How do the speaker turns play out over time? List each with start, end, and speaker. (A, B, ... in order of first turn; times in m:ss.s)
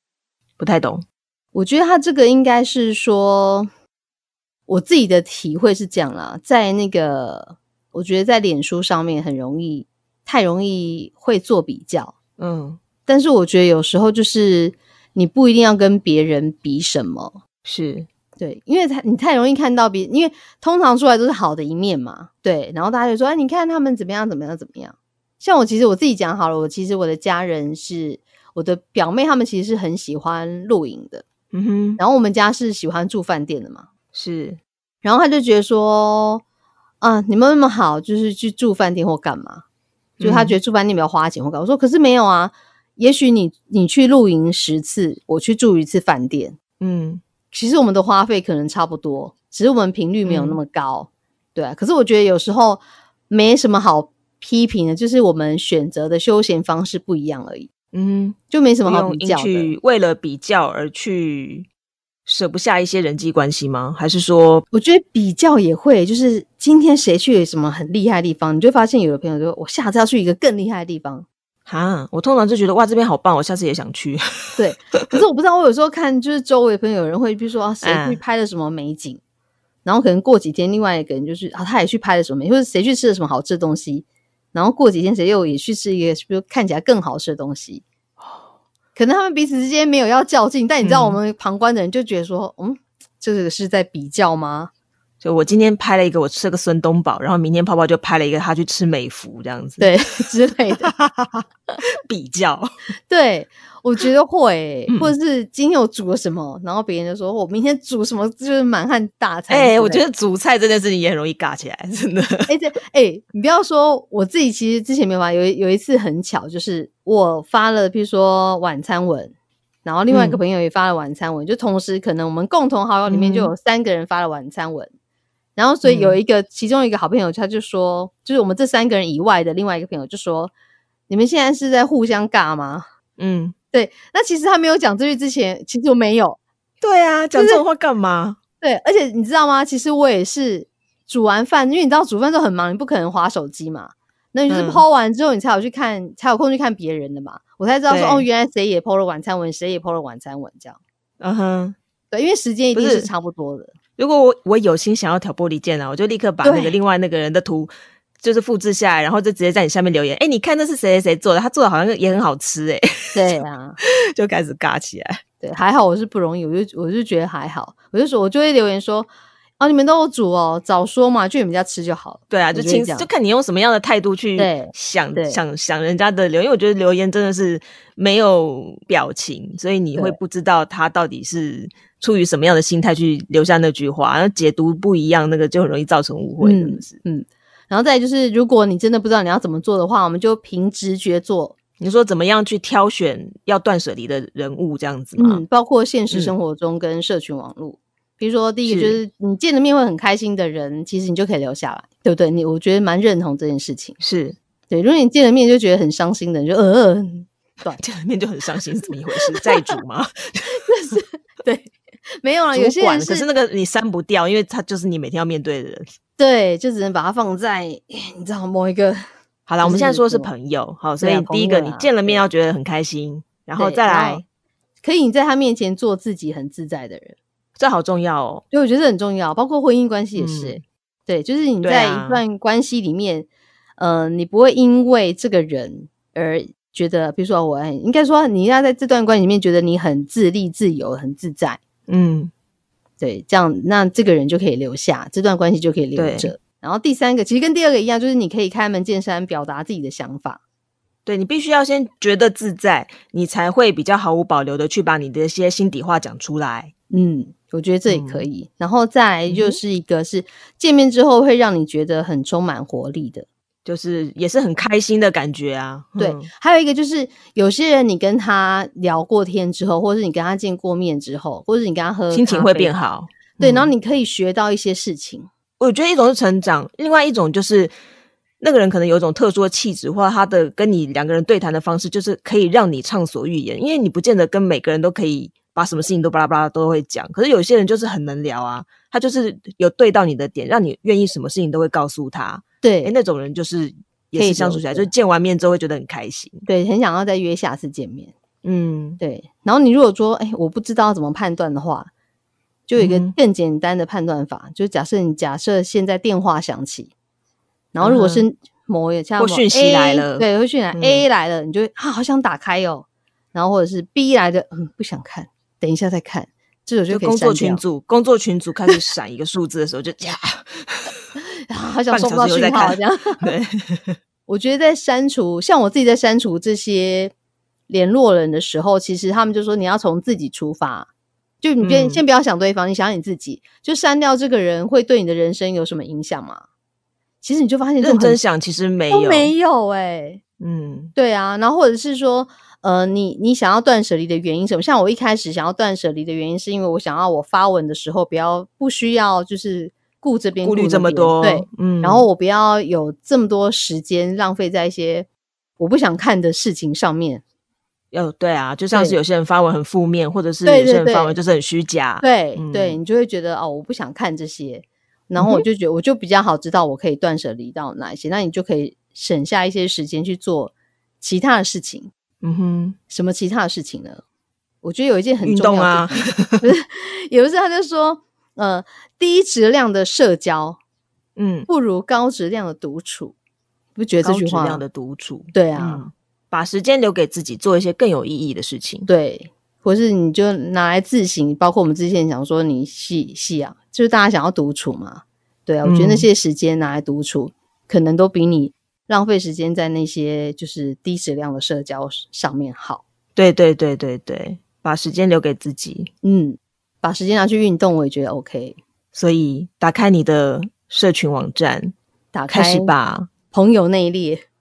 0:00.6-0:01.0 A
0:01.5-0:03.7 B
0:04.7-0:12.1 B
0:12.4-0:12.8 A
0:13.0-0:17.4 B
0:17.6-0:18.1 A
0:18.4-0:31.2 B
0:31.5-0:32.0 A
0:32.0-0:33.9 B
0:34.1-0:34.6 A
0:35.0-0:36.4 B
0:37.0-0:39.6 B
0:40.2-0:40.6 A
0:40.2-0:46.6 B
0:46.8-0:47.2 A
0:47.5-0:57.7 B
0:50.2-0:50.6 A
0:57.9-1:01.7 A
0:58.5-0:59.7 B
1:02.2-1:04.6 A
1:04.7-1:11.2 B
1:11.7-1:15.0 A
1:14.6-1:19.2 B
1:17.8-1:18.2 A
1:19.8-1:27.8 B
1:28.2-1:28.5 A
1:28.9-1:34.7 B
1:30.8-1:31.2 A
1:35.2-1:39.9 A
1:39.8-1:40.9 B
1:40.9-1:41.4 A
1:42.1-1:42.7 A
1:43.1-1:50.0 B
1:44.9-1:45.1 A
1:49.5-1:52.5 A
1:52.5-1:59.3 B
1:59.8-2:04.9 B
2:00.1-2:00.4 A
2:03.1-2:03.5 A
2:05.6-2:10.5 B
2:05.8-2:06.2 A
2:11.1-2:12.9 B
2:13.2-2:13.5 A
2:13.7-2:16.4 B
2:16.8-2:18.4 A
2:17.3-2:17.6 B
2:18.6-2:30.8 B
2:24.5-2:24.8 A
2:27.9-2:28.2 A
2:31.2-2:31.8 A
2:32.1-2:33.7 B
2:32.7-2:33.1 A
2:34.0-2:45.2 A
2:36.4-2:36.8 B
2:43.1-2:43.8 B
2:45.4-2:53.1 B
2:52.3-3:07.0 A
2:54.4-2:55.4 B
3:06.4-3:11.6 B
3:11.8-3:15.4 A
3:15.2-3:24.0 B
3:18.6-3:19.0 A
3:24.0-3:24.4 A
3:24.7-3:27.8 B
3:27.8-3:30.5 A
3:29.2-3:29.8 B
3:30.5-3:33.3 B
3:32.5-3:35.9 A
3:36.2-3:39.0 B
3:39.5-3:44.2 A
3:39.6-3:40.3 B
3:41.0-3:42.2 B
3:43.6-3:44.2 B
3:44.8-3:47.2 B
3:47.6-3:48.4 A
3:48.5-4:01.6 B
3:50.2-3:50.6 A
3:51.6-3:52.2 A
4:01.9-4:02.3 A
4:03.0-4:10.4 B
4:06.0-4:06.3 A
4:11.0-4:16.7 A
4:16.9-4:23.2 B
4:17.9-4:18.2 A
4:19.3-4:19.6 A
4:23.6-4:26.3 A
4:26.0-4:32.8 B
4:32.1-4:33.7 A
4:33.4-4:35.3 B
4:35.6-4:37.7 A
4:38.4-4:56.4 A
4:52.6-4:52.9 B
4:54.2-4:54.9 B
4:56.4-4:58.1 B
4:58.4-4:59.0 A
4:59.0-5:01.9 B
5:02.7-5:06.9 B
5:02.8-5:03.1 A
5:07.7-5:17.6 B
5:07.8-5:08.2 A
5:09.2-5:11.0 A
5:16.9-5:20.9 A
5:21.5-5:23.2 B
5:21.9-5:24.0 A
5:24.3-5:27.1 B
5:27.7-5:30.9 B
5:31.4-5:36.4 B
5:31.6-5:32.0 A
5:37.2-5:38.2 B
5:37.8-5:39.3 A
5:38.9-5:40.2 B
5:40.4-5:40.9 A
5:40.9-5:55.1 B
5:50.4-5:52.1 A
5:55.6-5:57.2 B
5:57.9-6:02.8 A
5:58.7-5:59.0 B
6:00.4-6:01.2 B
6:02.0-6:11.9 B
6:05.2-6:05.4 A
6:12.2-6:12.8 A
6:12.9-6:14.0 B
6:14.6-6:20.6 B
6:15.2-6:16.4 A
6:21.2-6:21.5 A
6:21.5-6:23.1 B
6:23.8-6:24.6 B
6:24.0-6:28.9 A
6:25.3-6:25.8 B
6:28.9-6:42.8 B
6:35.6-6:36.1 A
6:43.2-6:45.9 A
6:46.0-6:48.6 B
6:48.9-6:51.7 A
6:52.1-6:52.7 B
6:52.3-6:53.1 A
6:53.3-6:54.2 B